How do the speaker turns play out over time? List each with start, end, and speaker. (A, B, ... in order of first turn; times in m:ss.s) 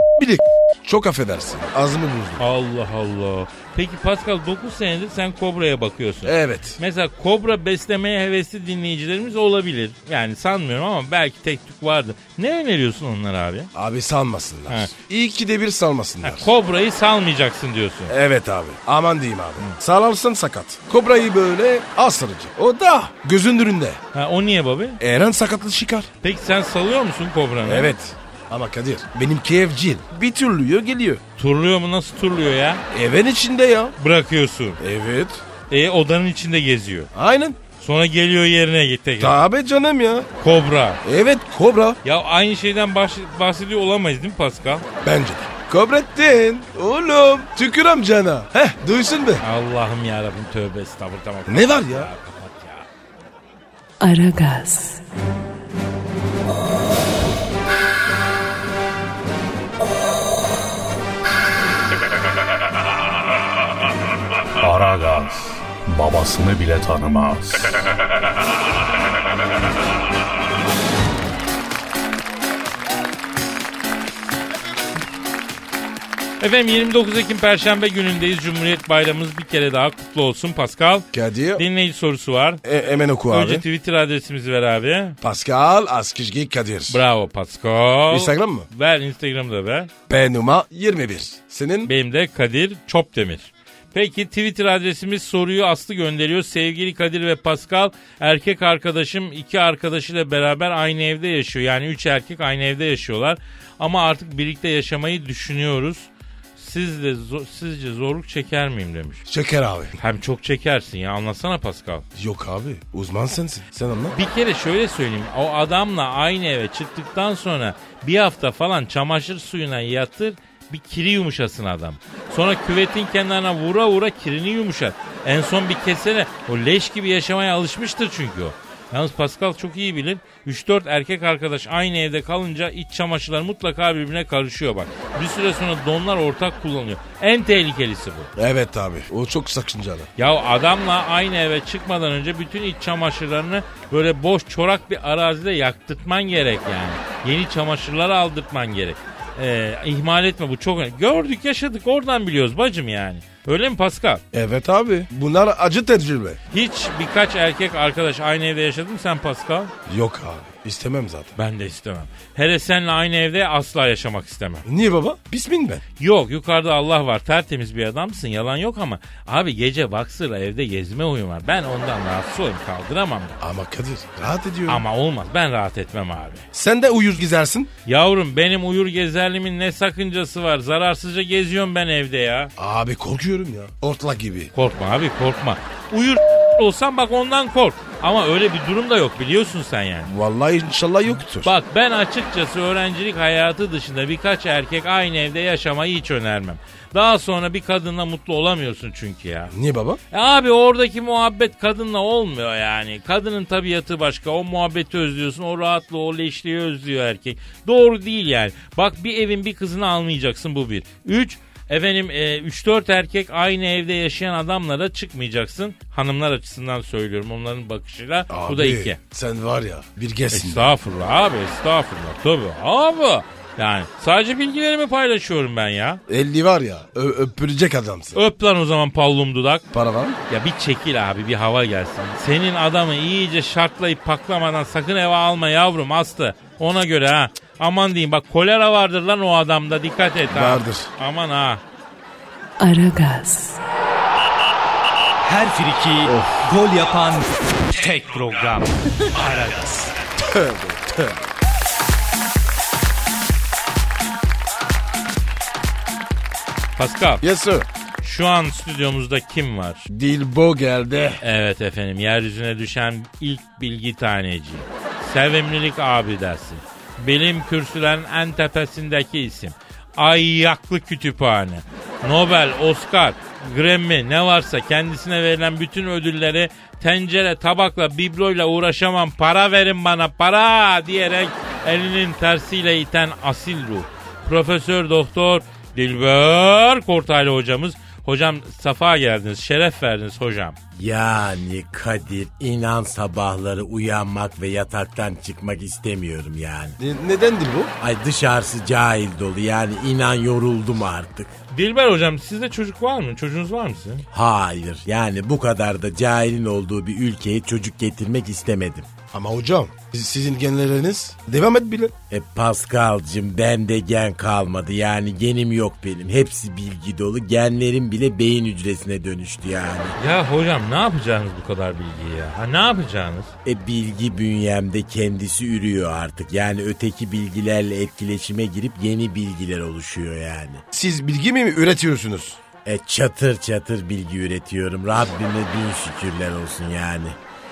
0:00.2-0:02.4 A
0:02.4-0:13.7 B
0:06.2-0:06.8 A
0:13.7-0:16.5 A
0:16.2-0:18.1 B
0:18.1-0:24.0 A
0:24.1-0:25.0 B
0:25.0-0:26.1 A
0:26.2-0:27.9 B
0:27.6-0:31.2 A
0:31.4-0:32.8 B
0:32.9-0:33.9 A
0:34.0-0:34.8 B
0:34.8-0:35.4 A
0:35.7-0:37.1 B
0:37.1-0:37.6 A
0:37.8-0:39.4 B
0:39.2-0:40.3 A
0:40.4-0:41.0 B
0:41.0-0:42.0 A
0:42.0-0:44.8 B
0:45.0-0:49.4 A
0:49.4-0:52.9 B
0:51.5-0:52.1 A
0:54.0-0:55.0 C
1:04.6-1:07.7 D
1:16.4-1:22.6 B
1:21.1-1:21.6 A
1:22.6-1:23.6 A
1:23.3-1:25.2 B
1:25.2-1:27.0 A
1:26.9-1:29.9 B
1:28.1-1:28.6 A
1:30.1-1:31.9 A
1:31.8-1:49.2 B
1:49.3-1:50.0 A
1:50.0-1:52.0 B
1:52.2-1:54.1 A
1:54.1-2:18.3 B
2:18.4-2:20.1 A
2:20.2-2:34.2 B
2:34.3-2:36.4 A
2:36.5-2:39.7 B
2:39.9-2:41.4 A
2:41.4-2:44.6 B
2:44.6-2:45.8 A
2:46.0-2:53.4 B
2:53.4-2:54.8 A
2:54.7-2:56.4 B
2:56.5-2:57.7 A
2:57.8-3:02.5 B
3:02.6-3:04.5 A
3:04.5-3:10.1 B
3:10.0-3:11.5 A
3:11.4-3:19.5 B
3:19.5-3:20.0 A
3:20.1-3:39.0 B
3:38.3-3:40.7 A
3:40.3-3:46.0 B
3:46.1-3:48.2 A
3:48.1-3:49.7 B
3:49.7-3:50.2 A
3:50.3-4:01.6 B
4:00.3-4:00.9 A
4:02.6-4:03.6 C
4:05.2-4:09.9 E
4:06.0-4:06.4 A
4:10.2-4:11.2 A
4:16.8-4:17.2 B
4:17.2-4:17.7 A
4:18.0-4:19.8 B
4:19.9-4:21.2 A
4:21.2-4:50.6 B
4:50.7-4:56.8 F
4:56.8-4:57.7 A
4:57.8-5:01.3 F
5:01.5-5:04.0 B
5:04.1-5:08.9 F
5:09.1-5:11.9 A
5:12.1-5:20.0 F
5:20.0-5:23.3 B
5:23.4-5:30.6 F
5:30.7-5:32.4 A
5:32.6-5:37.2 F